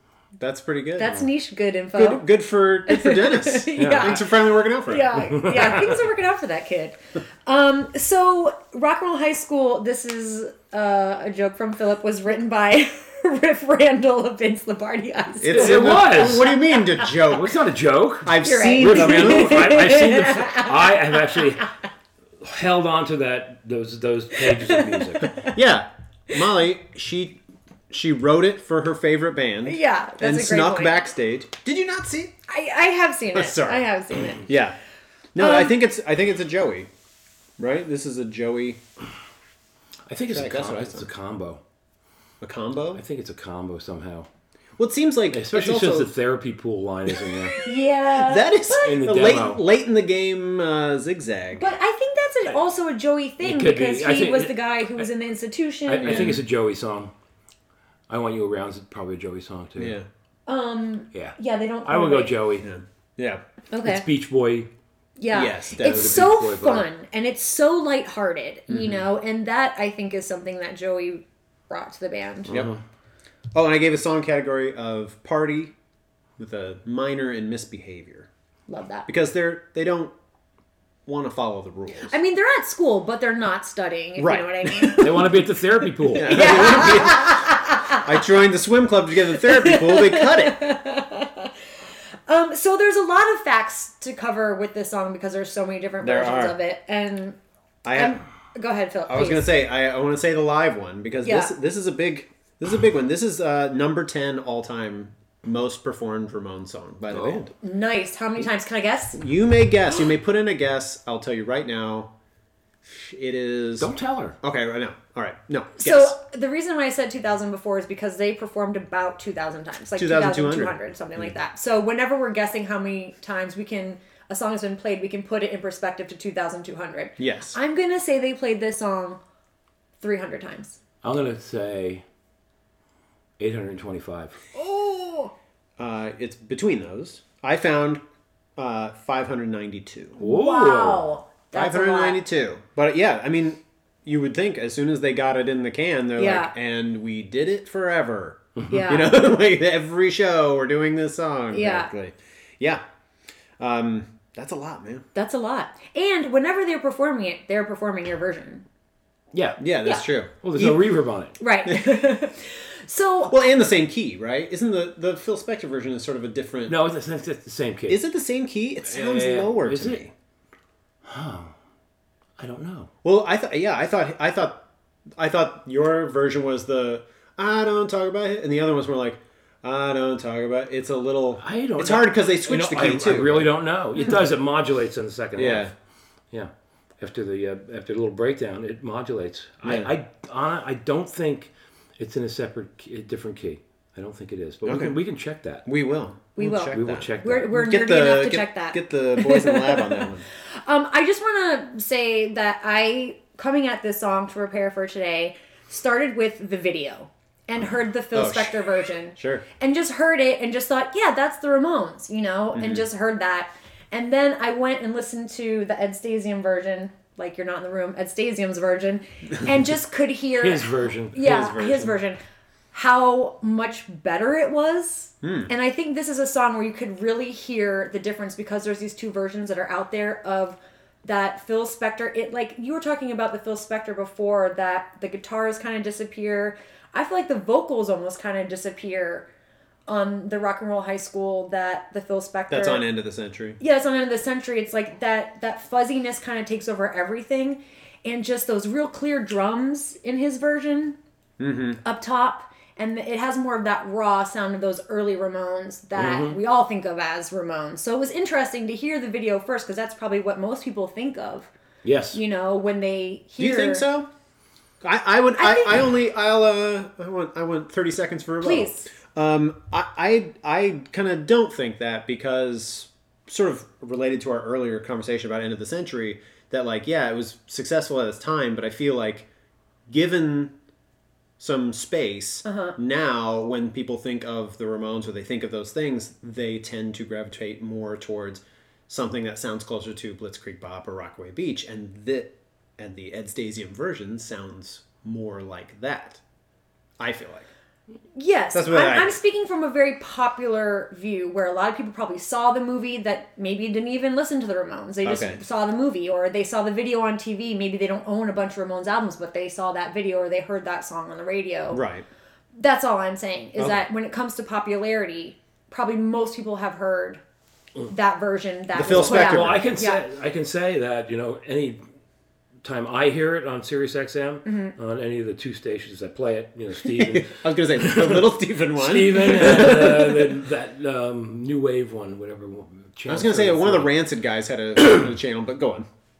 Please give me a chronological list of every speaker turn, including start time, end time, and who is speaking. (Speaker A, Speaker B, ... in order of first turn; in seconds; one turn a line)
Speaker A: 0.4-1.2
Speaker B: 1.0-2.2
Speaker A: 1.9-5.2
Speaker B: 2.9-4.3
Speaker C: 3.8-4.2
Speaker B: 4.8-16.8
Speaker C: 5.1-6.1
Speaker A: 15.4-17.6
Speaker C: 15.4-16.6
Speaker C: 17.1-21.7
Speaker A: 18.2-19.8
Speaker B: 18.4-21.6
Speaker C: 22.4-25.3
Speaker B: 24.6-25.5
Speaker A: 25.5-27.4
Speaker A: 27.9-32.3
Speaker B: 29.6-31.0
Speaker B: 32.5-34.5
Speaker A: 33.3-34.8
Speaker A: 35.3-36.9
Speaker B: 35.4-35.8
Speaker A: 37.6-38.8
Speaker C: 40.1-41.6
Speaker A: 40.3-41.1
Speaker A: 42.4-43.0
Speaker C: 43.0-44.3
Speaker A: 44.8-46.1
Speaker C: 45.3-47.6
Speaker A: 47.1-51.7
Speaker B: 47.6-49.0
Speaker C: 48.8-49.6
Speaker B: 51.6-56.4
Speaker C: 53.4-55.1
Speaker C: 55.9-57.1
Speaker A: 56.0-56.4
Speaker C: 58.1-60.0
Speaker A: 59.8-60.1
Speaker B: 60.5-62.4
Speaker C: 61.1-62.6
Speaker A: 62.6-63.4
Speaker B: 63.7-64.0
Speaker C: 63.8-64.7
Speaker B: 65.2-72.5
Speaker A: 65.3-66.4
Speaker C: 65.8-66.9
Speaker A: 68.7-69.0
Speaker C: 72.5-72.8
Speaker A: 73.5-75.7
Speaker A: 76.4-78.3
Speaker B: 78.7-79.1
Speaker A: 79.1-80.1
Speaker A: 81.0-82.1
Speaker B: 82.1-85.4
Speaker A: 84.2-85.2
Speaker C: 85.0-86.9
Speaker A: 86.1-90.6
Speaker B: 86.1-88.0
Speaker B: 89.4-91.5
Speaker B: 92.3-97.4
Speaker A: 96.0-96.5
Speaker A: 97.8-98.2
Speaker B: 97.9-99.5
Speaker A: 99.1-107.5
Speaker B: 101.2-101.5
Speaker C: 107.1-107.5
Speaker B: 107.6-109.2
Speaker A: 109.1-112.1
Speaker A: 112.8-113.9
Speaker C: 113.8-114.3
Speaker A: 114.4-116.2
Speaker B: 115.8-129.2
Speaker A: 120.0-121.3
Speaker A: 127.2-127.5
Speaker B: 130.0-130.8
Speaker C: 131.0-132.0
Speaker C: 133.4-134.4
Speaker B: 134.5-135.3
Speaker A: 135.8-138.0
Speaker A: 138.6-140.2
Speaker C: 140.2-141.1
Speaker B: 140.2-142.2
Speaker A: 141.5-152.8
Speaker B: 146.2-146.5
Speaker C: 148.6-148.8
Speaker B: 148.7-149.1
Speaker B: 151.5-151.9
Speaker A: 153.6-155.1
Speaker B: 155.1-158.7
Speaker C: 159.3-159.7
Speaker A: 159.6-160.8
Speaker C: 160.4-161.3
Speaker B: 161.4-163.3
Speaker A: 163.3-166.8
Speaker C: 166.7-168.0
Speaker A: 167.9-170.1
Speaker C: 168.9-170.0
Speaker C: 171.0-171.5
Speaker C: 172.4-172.9
Speaker A: 173.0-174.6
Speaker A: 175.2-183.5
Speaker C: 181.4-185.7
Speaker A: 185.3-185.7
Speaker C: 186.3-195.7
Speaker A: 189.6-189.9
Speaker A: 194.6-194.9
Speaker A: 195.7-200.2
Speaker B: 196.3-222.2
Speaker C: 196.7-197.6
Speaker A: 208.1-208.5
Speaker A: 209.2-209.4
Speaker A: 212.5-212.8
Speaker C: 220.4-221.7
Speaker A: 221.2-221.9
Speaker B: 222.7-239.3
Speaker A: 225.2-225.5
Speaker B: 239.9-242.8
Speaker A: 242.5-243.6
Speaker B: 243.6-251.0
Speaker A: 251.4-251.8
Speaker B: 251.8-261.5
Speaker C: 255.9-256.4
Speaker C: 261.8-262.2
Speaker B: 262.1-263.9
Speaker A: 263.4-264.1
Speaker A: 264.8-279.3
Speaker B: 265.4-265.8
Speaker B: 268.4-268.9
Speaker A: 279.9-280.5
Speaker A: 281.4-296.2
Speaker B: 282.4-282.8
Speaker A: 297.0-297.5
Speaker B: 298.1-311.8
Speaker A: 298.5-299.2
Speaker A: 305.0-305.4
Speaker A: 311.7-312.1
Speaker B: 312.6-317.2
Speaker B: 317.9-320.0
Speaker A: 318.7-319.7
Speaker C: 318.8-321.8
Speaker C: 322.6-333.9
Speaker B: 324.4-324.7
Speaker A: 326.9-330.3
Speaker A: 333.1-335.9